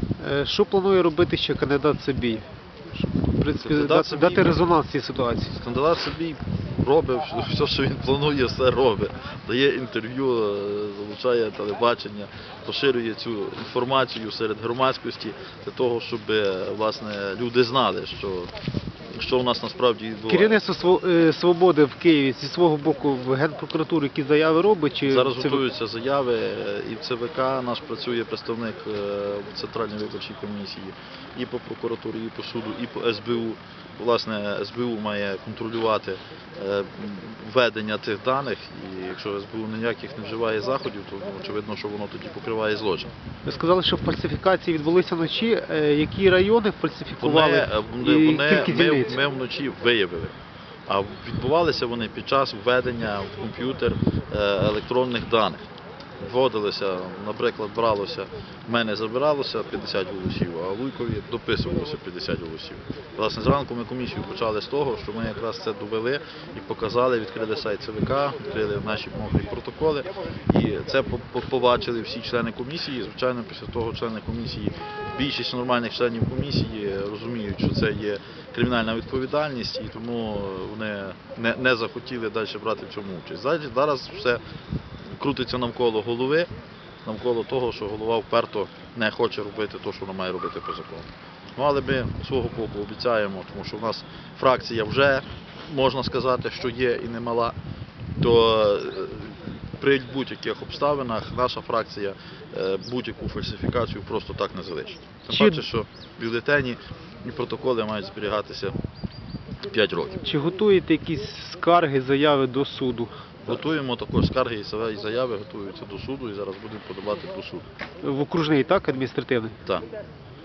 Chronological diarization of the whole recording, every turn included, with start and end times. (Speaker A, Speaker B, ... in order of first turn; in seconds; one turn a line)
Speaker A: 0.2-5.6
Speaker B: 3.6-4.6
Speaker B: 5.6-18.5
Speaker B: 19.1-20.6
Speaker A: 20.3-25.6
Speaker B: 25.1-43.1
Speaker A: 43.5-49.2
Speaker B: 47.2-50.4
Speaker B: 50.9-55.6
Speaker B: 56.2-84.4
Speaker B: 85.2-86.5
Speaker B: 87.0-97.6
Speaker B: 98.2-108.8
Speaker A: 105.3-105.7
Speaker B: 109.7-110.2
Speaker A: 110.2-113.3
Speaker B: 113.5-117.7
Speaker A: 118.0-119.6